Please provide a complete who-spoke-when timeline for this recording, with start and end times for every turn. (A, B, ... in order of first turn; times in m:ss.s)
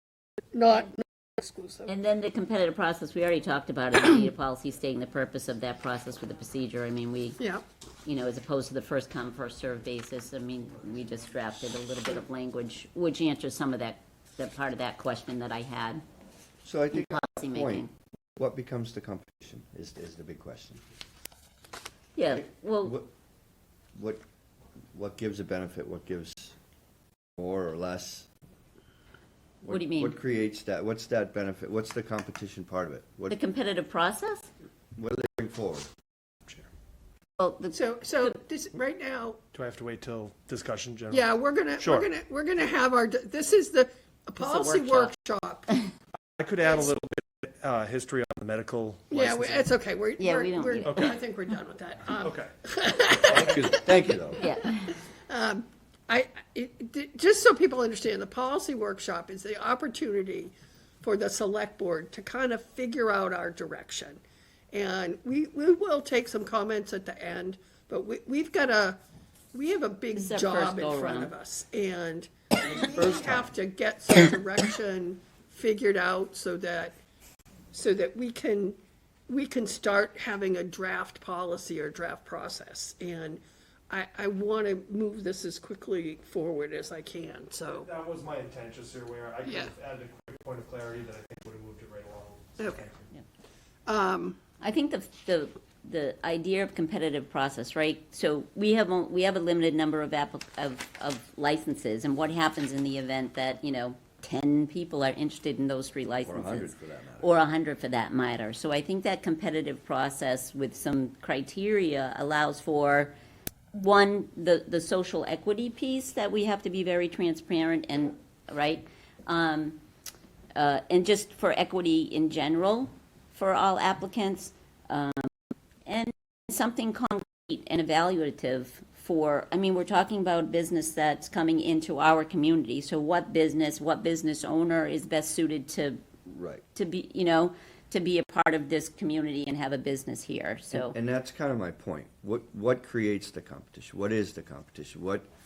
0:00.5-0:01.9 A
0:01.9-0:07.4 B
0:07.4-0:07.6 A
0:08.0-0:16.0 B
0:16.6-0:20.8 C
0:16.9-0:17.9 B
0:22.2-0:23.0 B
0:22.3-0:23.1 C
0:24.0-0:24.2 C
0:24.9-0:26.6 C
0:27.4-0:28.3 C
0:29.6-0:33.4 C
0:29.7-0:30.2 B
0:33.3-0:34.5 B
0:35.0-0:35.9 C
0:37.4-0:38.3 B
0:37.7-0:39.4 A
0:39.5-0:41.3 D
0:41.1-0:45.7 A
0:41.8-0:42.1 D
0:44.4-0:45.1 B
0:46.4-0:49.7 D
0:46.6-0:46.9 A
0:49.1-0:54.0 A
0:50.2-0:51.1 B
0:50.9-0:51.2 D
0:52.2-0:52.5 D
0:53.3-0:54.5 C
0:54.4-0:54.9 B
0:55.3-1:04.2 A
1:04.7-1:09.0 A
1:09.5-1:17.0 A
1:10.1-1:11.3 B
1:12.7-1:13.5 C
1:17.7-1:27.9 A
1:27.7-1:33.1 D
1:29.4-1:29.7 A
1:32.6-1:32.8 A
1:33.9-1:34.4 A
1:34.6-1:53.1 B
1:46.2-1:47.3 C
1:53.7-1:59.8 B
2:00.6-2:05.3 B
2:05.8-2:16.0 B
2:16.3-2:16.6 C
2:16.8-2:21.0 B
2:20.7-2:25.3 C